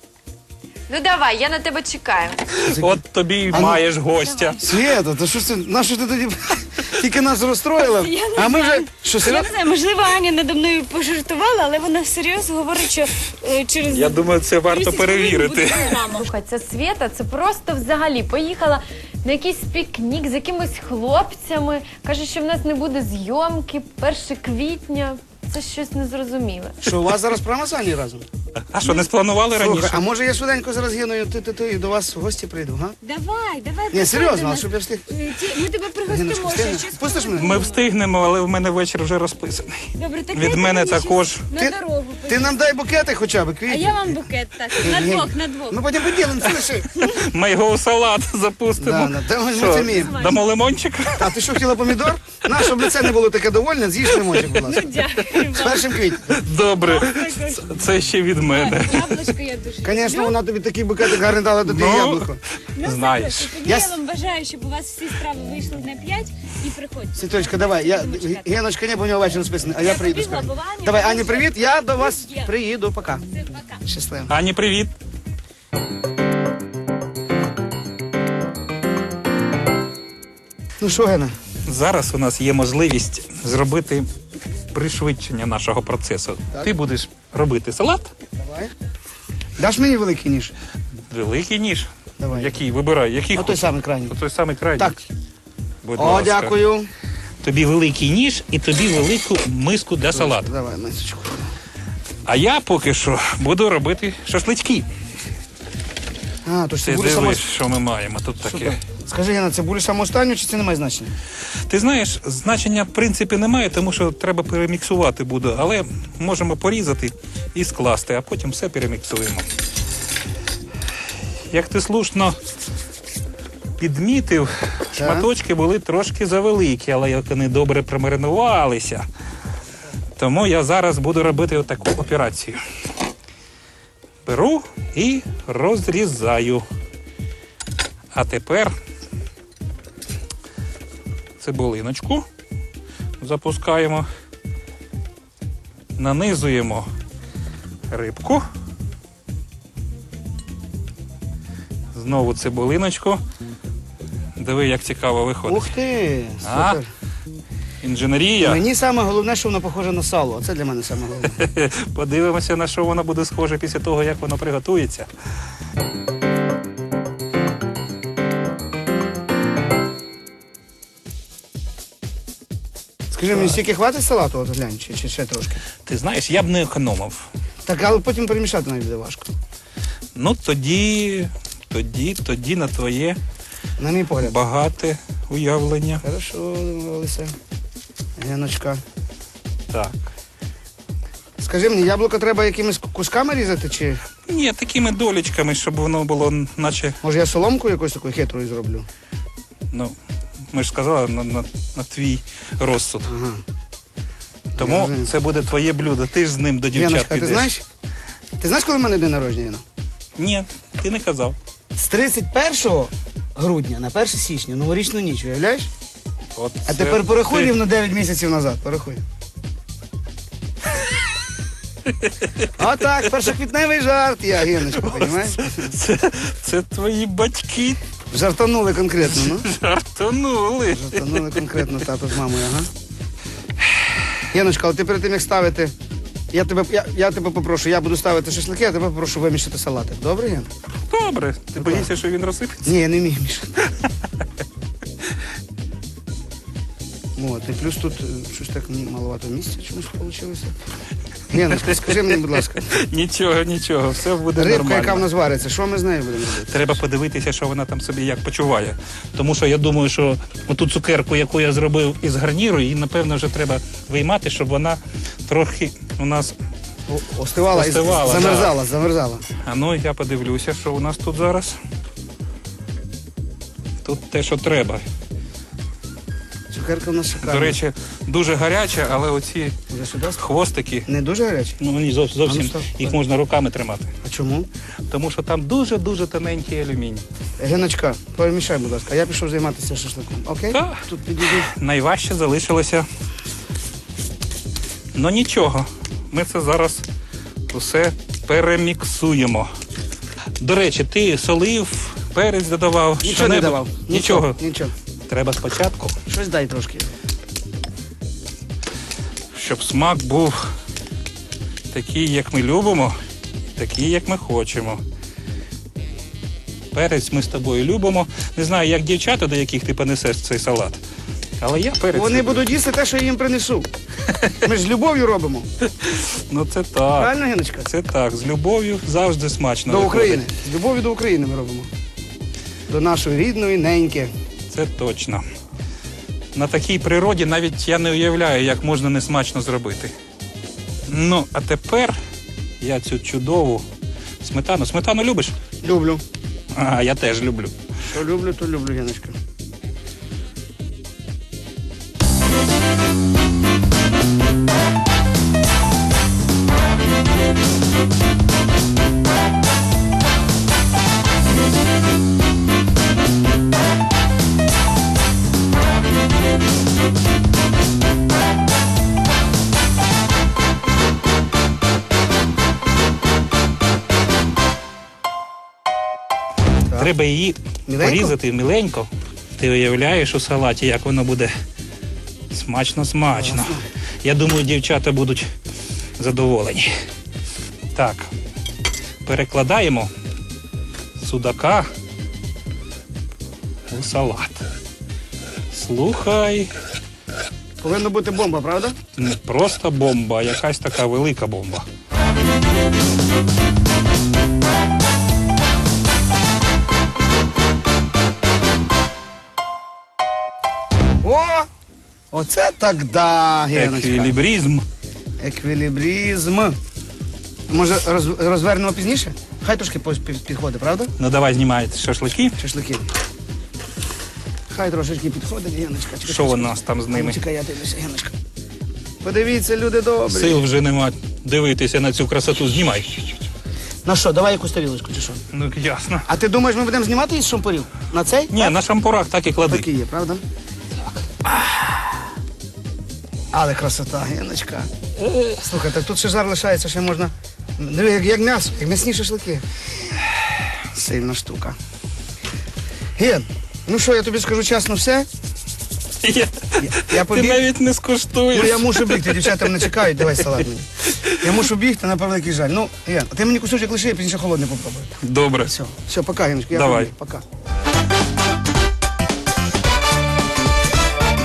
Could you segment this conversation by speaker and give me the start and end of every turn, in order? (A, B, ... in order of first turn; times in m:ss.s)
0:00.9-0:02.5 A
0:02.6-0:04.6 B
0:02.7-0:03.0 C
0:03.5-0:03.8 C
0:04.2-0:04.6 D
0:04.6-0:09.5 C
0:07.8-0:16.3 D
0:13.9-0:16.0 B
0:16.1-0:26.8 A
0:26.8-0:28.2 C
0:28.6-0:30.0 B
0:29.5-0:33.0 C
0:33.0-0:37.8 D
0:33.9-0:35.0 C
0:36.1-0:37.6 C
0:37.4-0:41.5 B
0:40.0-0:42.6 D
0:41.5-0:44.2 C
0:43.7-0:45.9 D
0:44.8-0:47.1 C
0:46.6-0:51.5 B
0:48.8-0:50.2 C
0:49.7-0:50.5 D
0:51.2-0:55.0 C
0:52.5-0:53.1 B
0:54.5-0:56.1 D
0:55.5-0:56.3 C
0:56.2-0:59.3 B
0:56.7-0:57.9 D
0:58.5-1:00.4 D
0:59.8-1:02.4 C
1:01.3-1:03.5 B
1:02.8-1:08.5 D
1:03.6-1:03.9 C
1:07.2-1:13.2 C
1:09.8-1:12.6 D
1:13.3-1:13.8 D
1:13.8-1:14.3 C
1:14.3-1:14.9 B
1:20.8-1:21.3 C
1:21.7-1:24.1 B
1:24.7-1:28.1 B
1:28.4-1:28.7 C
1:29.6-1:30.5 C
1:31.1-1:35.0 B
1:32.2-1:32.6 C
1:33.4-1:34.2 C
1:35.8-1:36.6 B
1:36.0-1:36.9 C
1:37.4-1:40.5 B
1:40.1-1:41.5 C
1:42.2-1:44.9 B
1:46.4-1:47.4 C
1:46.8-1:48.8 B
1:48.4-1:51.1 C
1:51.7-1:59.5 B
2:01.4-2:02.4 B
2:03.8-2:09.1 B
2:05.0-2:05.3 C
2:10.2-2:12.6 B
2:14.2-2:16.7 B
2:18.1-2:18.7 B
2:21.4-2:22.3 B
2:23.2-2:24.1 B
2:26.0-2:26.9 B
2:27.9-2:28.5 B
2:31.9-2:33.2 B
2:34.4-2:35.7 B
2:35.5-2:36.9 C
2:36.4-2:36.8 B
2:37.8-2:38.6 B
2:38.4-2:41.4 C
2:41.4-2:45.1 B
2:53.1-2:55.6 C
2:55.8-2:57.3 B
2:57.7-2:59.3 C
3:00.2-3:03.2 B
3:03.8-3:04.4 C
3:04.2-3:06.0 B
3:06.0-3:07.3 C
3:08.2-3:08.8 C
3:09.7-3:10.1 B
3:11.4-3:14.0 C
3:14.2-3:17.0 B
3:17.0-3:18.9 C
3:19.7-3:20.0 B
3:20.5-3:23.1 B
3:23.0-3:23.4 C
3:24.5-3:25.1 C
3:24.6-3:27.5 B
3:26.7-3:27.6 C
3:28.4-3:29.6 C
3:30.2-3:31.4 B
3:31.8-3:35.7 C
3:36.3-3:37.5 B
3:36.7-3:39.0 C
3:41.8-3:42.5 B
3:42.6-3:45.7 C
3:44.8-3:47.8 B
3:48.1-3:49.5 C
3:49.1-3:51.7 B
3:50.7-3:52.7 C
3:54.3-3:55.7 C
3:56.3-4:00.5 C
4:00.9-4:02.8 B
4:01.6-4:01.9 C
4:02.6-4:03.8 C
4:07.2-4:10.6 C
4:11.3-4:12.6 C
4:11.4-4:15.1 B
4:14.4-4:16.8 C
4:16.5-4:26.4 B
4:26.9-4:29.2 C
4:27.5-4:28.6 B
4:29.4-4:31.6 B
4:33.8-4:34.8 B
4:36.5-4:37.6 C
4:37.2-4:39.6 B
4:39.7-4:40.2 C
4:40.2-4:40.9 B
4:40.9-4:41.6 C
4:41.6-4:43.9 B
4:42.3-4:42.9 C
4:44.0-4:44.5 C
4:44.9-4:47.0 B
4:47.4-4:51.5 C
4:50.5-4:52.9 B
4:54.9-4:56.8 B
4:57.5-4:59.5 B
5:00.4-5:04.4 B
5:03.0-5:04.7 C
5:05.1-5:06.0 B
5:06.1-5:06.9 C
5:09.3-5:10.5 B
5:11.7-5:13.0 B
5:13.5-5:14.8 B
5:16.7-5:20.8 B
5:21.4-5:22.6 B
5:21.9-5:23.7 C
5:24.1-5:24.4 B
5:24.4-5:25.5 C
5:25.6-5:30.3 B
5:27.0-5:27.7 C
5:29.7-5:31.7 C
5:32.7-5:34.1 C
5:34.5-5:35.3 B
5:36.3-5:39.9 B
5:40.9-5:42.0 B
5:42.6-5:43.7 B
5:44.2-5:45.4 B
5:45.6-5:46.0 C
5:46.5-5:47.5 B
5:47.9-5:49.2 C
6:16.7-6:21.3 B
6:17.7-6:18.2 C
6:22.3-6:25.3 B
6:23.2-6:23.6 C
6:26.0-6:26.7 B
6:27.7-6:28.1 B
6:29.0-6:29.9 B
6:31.0-6:31.7 B
6:33.7-6:34.4 B
6:35.5-6:36.5 B
6:37.6-6:38.8 C
6:39.0-6:41.7 B
6:51.0-6:51.5 C
6:52.1-6:54.1 C
6:53.5-6:54.7 B
6:55.2-6:56.6 C
6:57.5-7:00.9 C
7:01.0-7:02.4 B
7:02.4-7:02.9 C
7:04.5-7:08.1 C
7:06.0-7:07.2 B
7:09.0-7:10.4 C
7:10.1-7:13.0 B
7:13.8-7:15.2 C
7:15.3-7:16.1 B
7:16.1-7:18.6 C
7:18.3-7:19.7 B
7:19.5-7:20.2 C
7:21.2-7:21.7 B
7:23.3-7:24.7 C
7:25.0-7:25.4 B
7:25.4-7:29.5 C
7:30.7-7:31.6 C
7:33.0-7:35.1 C
7:36.0-7:39.6 B
7:36.6-7:37.4 C
7:38.3-7:47.2 C
7:40.9-7:41.3 B
7:45.0-7:45.5 B
7:46.5-7:46.9 B